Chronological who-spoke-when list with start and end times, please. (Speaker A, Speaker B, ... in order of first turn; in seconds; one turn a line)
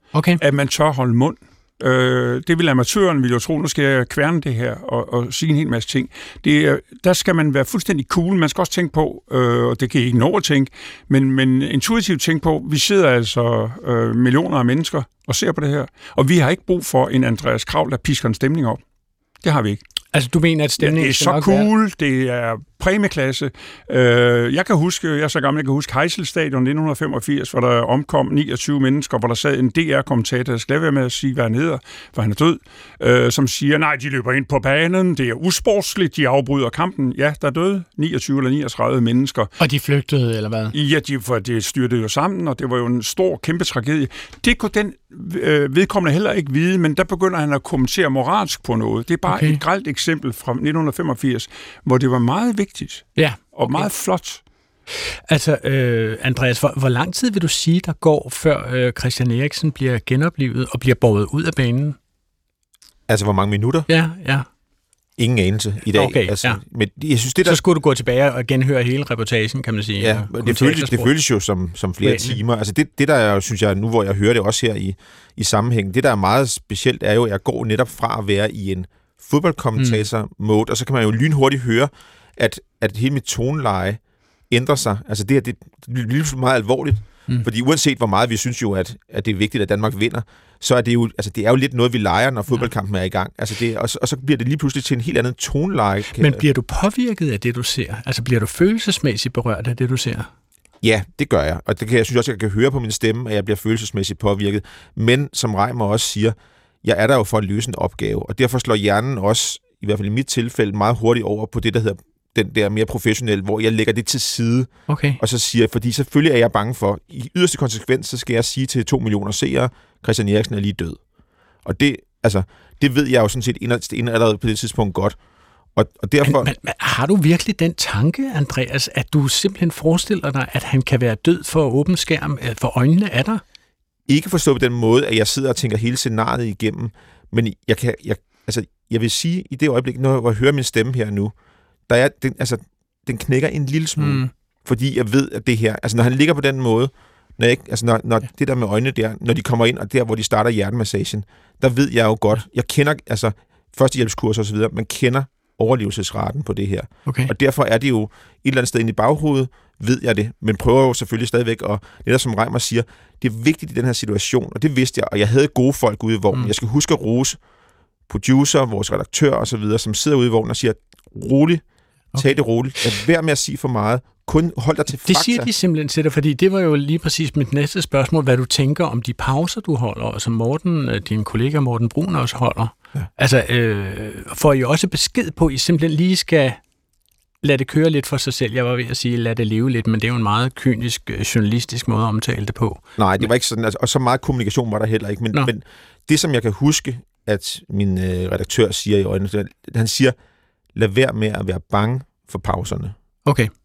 Speaker A: 0.1-0.4
Speaker B: 0.4-18.8
Speaker B: 19.4-19.8
Speaker A: 20.1-21.7
Speaker B: 20.8-39.5
Speaker A: 39.6-40.7
Speaker B: 40.7-54.4
Speaker A: 49.3-49.6
Speaker A: 53.1-53.9
Speaker A: 55.3-62.0
Speaker C: 63.1-63.9
Speaker A: 63.9-64.5
Speaker C: 65.2-67.6
Speaker A: 65.9-66.6
Speaker A: 67.4-71.1
Speaker C: 70.0-96.4
Speaker A: 72.0-72.4
Speaker A: 79.8-80.0
Speaker A: 96.2-100.3
Speaker C: 100.8-121.0
Speaker A: 114.9-115.2
Speaker C: 121.6-125.2
Speaker C: 125.8-126.5
Speaker A: 126.2-133.4
Speaker C: 134.1-141.3
Speaker C: 141.9-167.4
Speaker A: 144.0-144.3
Speaker A: 157.1-157.3
Speaker C: 168.1-171.6
Speaker C: 172.2-175.5
Speaker A: 175.1-186.6
Speaker A: 187.4-193.2
Speaker C: 193.0-200.2
Speaker C: 200.8-202.9
Speaker A: 203.2-203.5